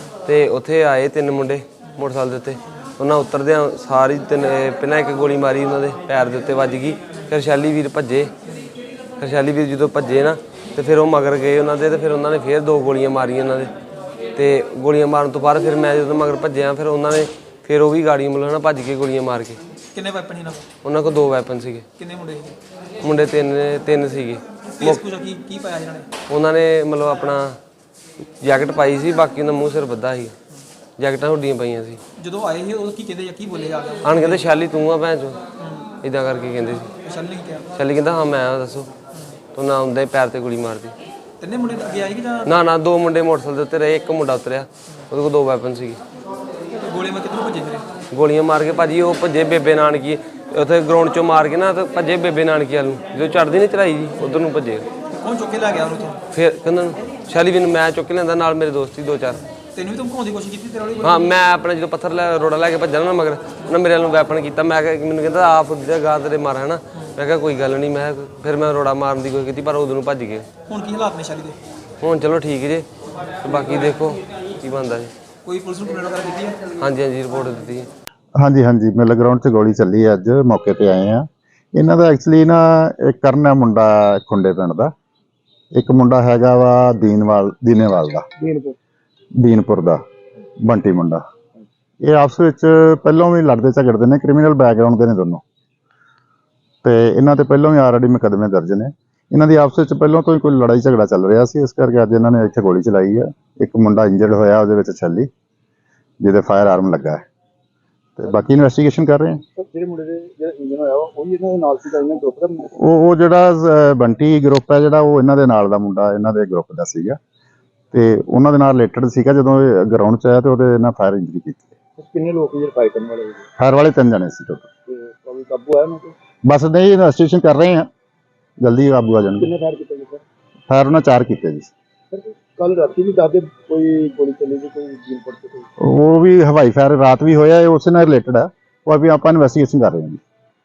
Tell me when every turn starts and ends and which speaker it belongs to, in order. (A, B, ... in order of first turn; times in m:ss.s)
0:00.2-0:08.3 A
0:09.2-0:13.7 A
0:14.3-0:19.6 A
0:19.9-0:20.7 B
0:20.8-0:21.8 A
0:22.0-0:22.5 B
0:23.0-0:25.0 A
0:24.7-0:26.1 B
0:26.3-0:27.6 A
0:28.4-0:30.3 A
0:31.0-0:32.0 A
0:32.2-0:34.4 B
0:34.0-0:35.4 A
0:35.6-0:35.8 B
0:36.0-0:36.9 A
0:37.0-0:37.7 B
0:37.7-0:38.9 A
0:39.5-0:40.9 A
0:41.4-0:42.6 B
0:42.4-0:46.0 A
0:46.8-0:47.8 B
0:48.1-0:54.8 A
0:55.1-0:56.2 B
0:56.3-0:59.4 A
0:59.7-1:01.3 B
1:01.0-1:10.4 A
1:10.7-1:11.6 B
1:12.0-1:12.8 A
1:13.4-1:15.1 A
1:15.4-1:16.6 B
1:16.8-1:17.9 A
1:18.4-1:24.9 C
1:25.7-1:28.3 C
1:28.4-1:28.8 D
1:29.4-1:30.0 C
1:30.6-1:31.2 C
1:32.0-1:35.4 C
1:36.8-1:45.3 C
1:46.2-1:47.2 C
1:48.2-1:49.4 C
1:49.5-1:52.7 D
1:52.8-1:57.2 C
1:57.9-2:01.7 C
2:02.0-2:03.5 D
2:03.6-2:04.6 C
2:04.9-2:06.1 D
2:06.4-2:07.9 C
2:08.6-2:09.5 C
2:09.4-2:10.2 D
2:10.7-2:11.7 C
2:12.1-2:15.7 D
2:15.8-2:20.2 C